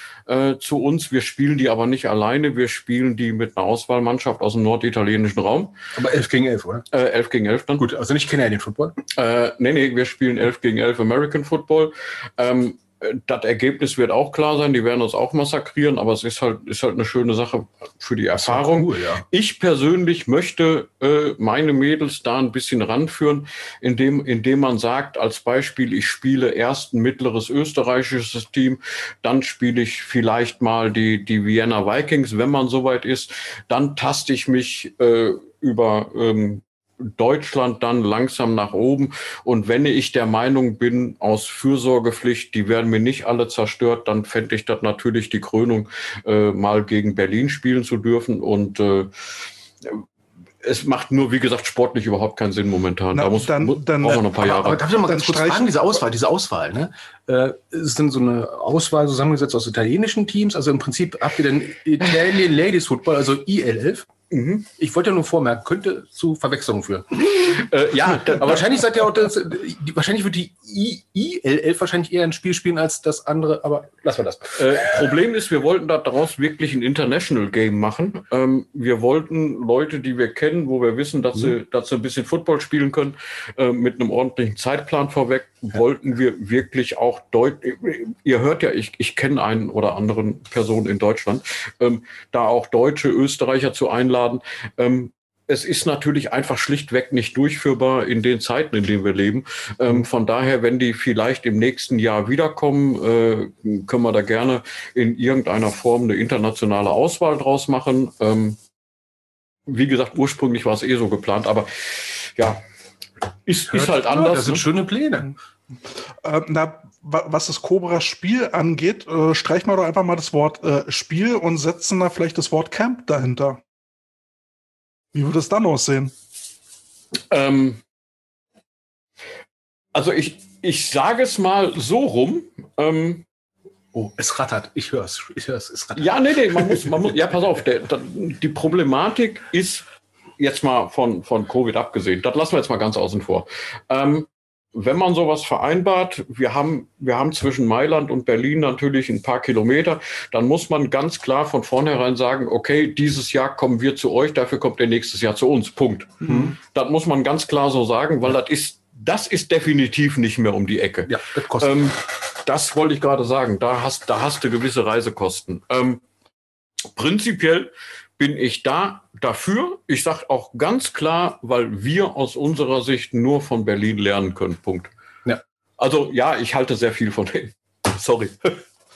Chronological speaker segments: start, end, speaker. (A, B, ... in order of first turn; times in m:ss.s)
0:00.3-0:05.7 A
0:05.9-0:06.8 B
0:06.9-0:07.8 A
0:07.8-0:09.0 B
0:09.1-0:49.1 A
0:18.4-0:19.2 B
0:50.6-0:54.8 A
0:53.1-0:54.2 C
0:54.0-1:04.1 B
0:55.0-0:55.9 C
1:04.3-1:04.7 A
1:04.8-1:07.6 B
1:07.2-1:08.8 A
1:08.1-1:15.0 B
1:14.5-1:48.6 A
1:49.6-1:52.6 A
1:53.4-1:54.7 A
1:53.7-1:55.3 B
1:56.2-2:03.6 C
2:05.1-2:06.1 C
2:07.3-2:07.8 A
2:09.9-2:13.2 A
2:13.9-2:17.0 B
2:16.0-2:19.8 A
2:20.4-2:46.0 A
2:36.2-2:36.5 B
2:41.0-2:41.7 B
2:47.0-2:54.9 A
2:55.8-2:58.6 A